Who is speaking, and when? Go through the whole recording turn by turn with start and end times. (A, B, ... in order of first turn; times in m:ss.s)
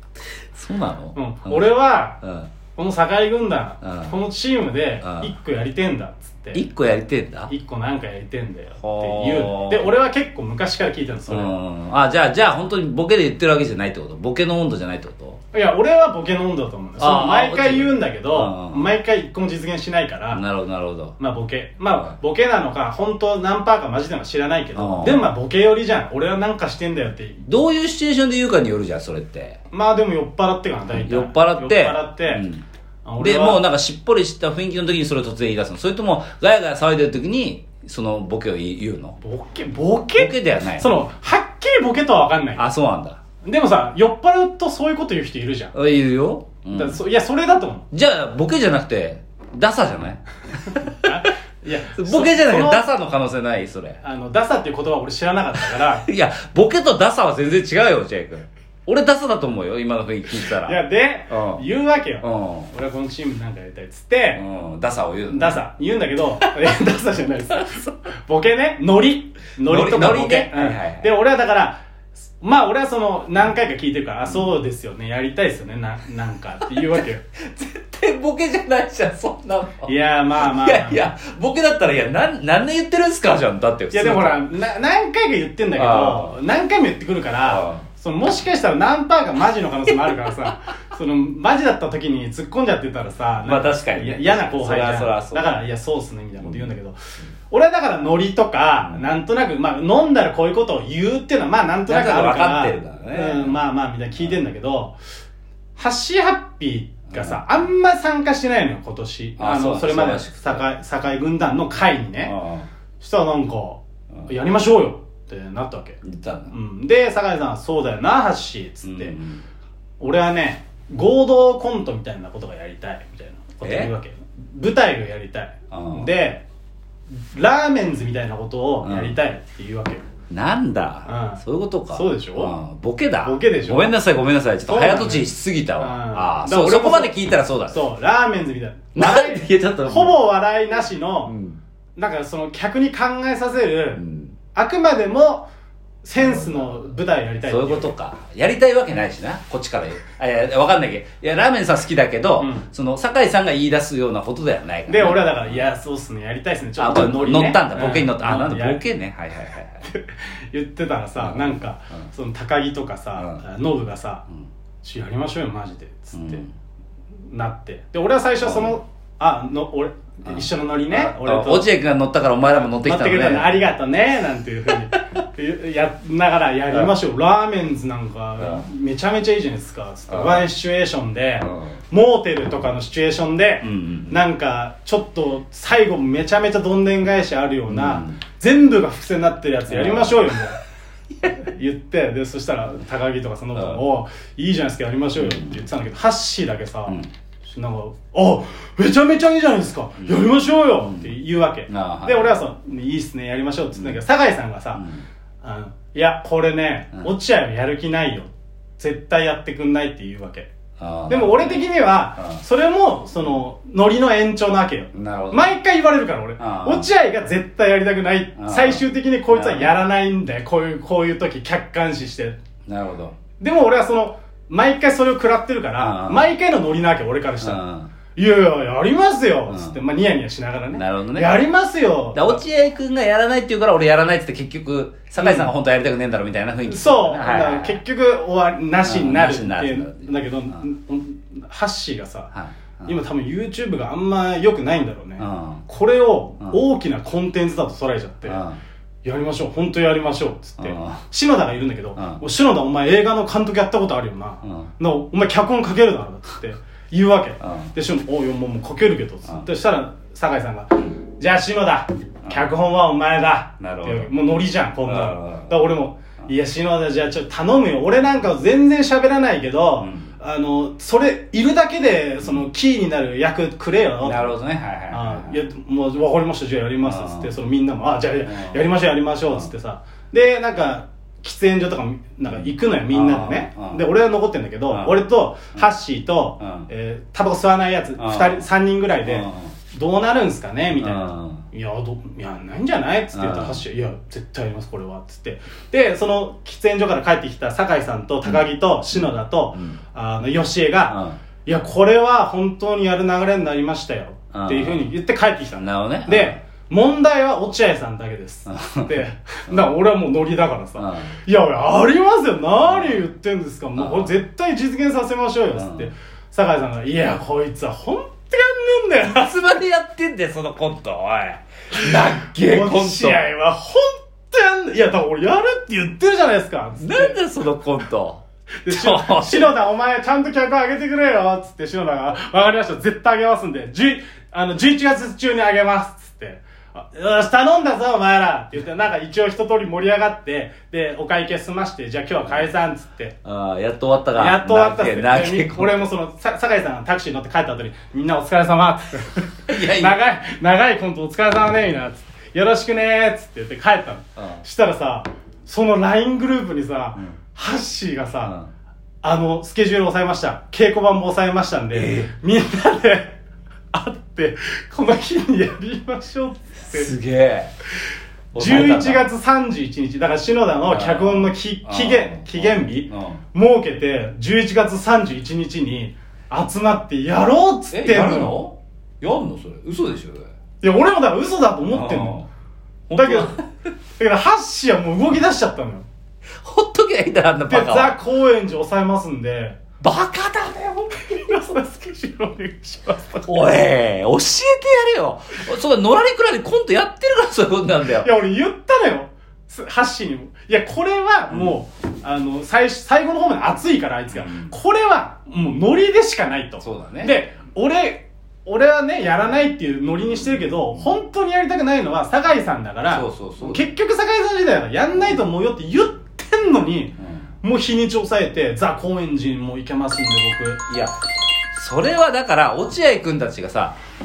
0:00.5-0:01.7 A
0:01.2-0:02.2 B
0:02.2-0:02.5 A
0:02.8-0:06.7 B
0:03.8-0:04.2 A
0:05.0-0:05.3 A
0:06.5-0:07.5 A
0:07.5-0:11.5 B
0:08.8-0:09.9 A
0:11.3-0:15.4 A
0:15.5-0:20.4 B
0:17.0-0:18.9 A
0:20.3-0:21.2 A
0:21.2-0:27.5 B
0:24.8-0:25.3 A
0:27.4-0:29.6 A
0:29.7-0:32.5 B
0:31.0-0:32.6 A
0:33.0-0:33.6 B
0:33.2-0:39.2 A
0:39.2-0:42.7 B
0:40.2-0:40.9 A
0:42.6-0:43.2 A
0:43.4-0:45.7 B
0:45.7-0:47.0 A
0:46.7-0:47.9 B
0:47.9-0:51.3 A
0:50.9-0:52.9 B
0:51.9-0:54.0 A
0:54.0-0:56.0 B
0:55.8-1:00.8 A
1:00.4-1:04.4 B
1:01.3-1:01.6 A
1:02.2-1:02.7 A
1:04.4-1:05.6 A
1:05.3-1:17.2 B
1:09.7-1:11.1 A
1:16.7-1:24.4 A
1:19.8-1:21.1 B
1:23.9-1:45.0 B
1:25.7-1:26.4 A
1:27.4-1:27.8 A
1:29.9-1:30.6 A
1:33.4-1:35.5 A
1:36.4-1:36.7 A
1:38.8-1:39.1 A
1:41.9-1:43.6 A
1:45.8-1:52.4 B
1:47.1-1:47.4 A
1:49.4-1:50.7 A
1:52.2-1:52.7 A
1:53.0-1:59.2 B
1:56.0-1:56.5 A
1:58.8-1:59.4 A
2:00.0-2:06.4 B
2:03.6-2:03.9 A
2:05.7-2:06.1 A
2:07.1-2:10.0 B
2:08.8-2:09.2 A
2:10.3-2:17.9 A
2:11.0-2:12.6 B
2:13.2-2:14.0 B
2:14.6-2:17.2 B
2:17.7-2:21.4 B
2:19.0-2:20.2 A
2:21.3-2:21.6 A
2:22.0-2:24.0 B
2:24.0-2:24.4 A
2:24.5-2:25.5 B
2:26.0-2:27.9 B
2:26.2-2:26.9 A
2:27.5-2:35.6 A
2:32.4-2:32.7 B
2:34.9-2:38.8 B
2:36.8-2:39.9 A
2:39.8-2:44.2 B
2:41.2-2:42.1 A
2:43.2-2:43.4 A
2:44.8-2:46.4 B
2:46.1-2:46.5 A
2:47.3-2:51.7 B
2:48.4-2:48.8 A
2:50.3-2:53.7 A
2:52.8-3:10.6 B
2:58.4-2:58.6 A
3:00.1-3:00.5 A
3:01.4-3:01.8 A
3:03.6-3:04.2 A
3:07.7-3:08.2 A
3:09.7-3:10.5 A
3:11.3-3:24.8 B
3:13.6-3:13.8 A
3:15.2-3:15.7 A
3:20.8-3:21.1 A
3:21.7-3:22.4 A
3:23.8-3:24.0 A
3:24.7-3:25.1 A
3:25.4-3:30.5 B
3:30.8-3:32.4 A
3:31.1-3:42.4 B
3:34.9-3:35.5 A
3:36.4-3:36.9 A
3:38.4-3:39.8 A
3:42.7-3:43.2 A
3:43.4-3:47.6 B
3:45.8-3:46.3 A
3:47.4-3:47.9 A
3:48.2-3:52.4 B
3:49.5-3:49.8 A
3:50.7-3:51.4 A
3:52.1-3:57.8 A
3:55.2-3:55.5 B
3:56.7-4:02.3 B
3:58.8-4:00.6 A
4:02.3-4:02.9 A
4:02.8-4:08.4 B
4:05.2-4:05.6 A
4:08.3-4:08.6 A
4:09.0-4:34.4 B
4:10.6-4:11.0 A
4:12.0-4:12.2 A
4:14.4-4:14.7 A
4:17.4-4:17.7 A
4:22.2-4:22.5 A
4:23.6-4:24.1 A
4:24.9-4:25.6 A
4:29.8-4:30.1 A
4:34.0-4:35.4 A
4:34.9-5:19.6 B
4:36.8-4:37.3 A
4:38.2-4:38.7 A
4:42.9-4:43.8 A
4:44.7-4:45.7 A
4:46.4-4:46.7 A
4:48.0-4:48.4 A
4:49.1-4:49.6 A
4:50.8-4:51.5 A
4:53.1-4:53.6 A
4:59.5-4:59.8 A
5:00.9-5:01.2 A
5:04.3-5:04.9 A
5:05.6-5:06.4 A
5:08.5-5:09.7 A
5:10.8-5:11.2 A
5:12.6-5:13.0 A
5:13.8-5:14.2 A
5:15.6-5:15.9 A
5:19.0-5:23.2 A
5:21.7-5:27.2 B
5:26.8-5:29.6 A
5:28.6-5:43.2 B
5:43.2-5:45.9 A
5:44.1-5:58.4 B
5:49.5-5:50.0 A
5:54.2-5:54.4 A
5:58.2-5:58.5 A
5:59.0-6:03.2 B
6:01.7-6:02.1 A
6:03.7-6:06.9 B
6:06.7-6:07.5 A
6:08.3-6:09.0 A
6:08.3-6:18.4 B
6:10.7-6:13.2 A
6:17.7-6:20.3 A
6:20.6-6:22.2 B
6:21.7-6:22.3 A
6:22.9-6:23.5 A
6:22.9-6:23.4 B
6:24.0-6:25.9 B
6:26.4-6:28.0 A
6:27.5-6:29.6 B
6:29.8-6:31.7 A
6:31.0-6:33.5 B
6:33.3-6:38.1 A
6:37.9-7:00.7 B
6:41.3-6:41.6 A
6:44.1-6:44.5 A
6:46.6-6:47.2 A
6:50.4-6:50.9 A
6:52.9-6:53.7 A
7:00.7-7:01.0 A
7:01.5-7:03.8 A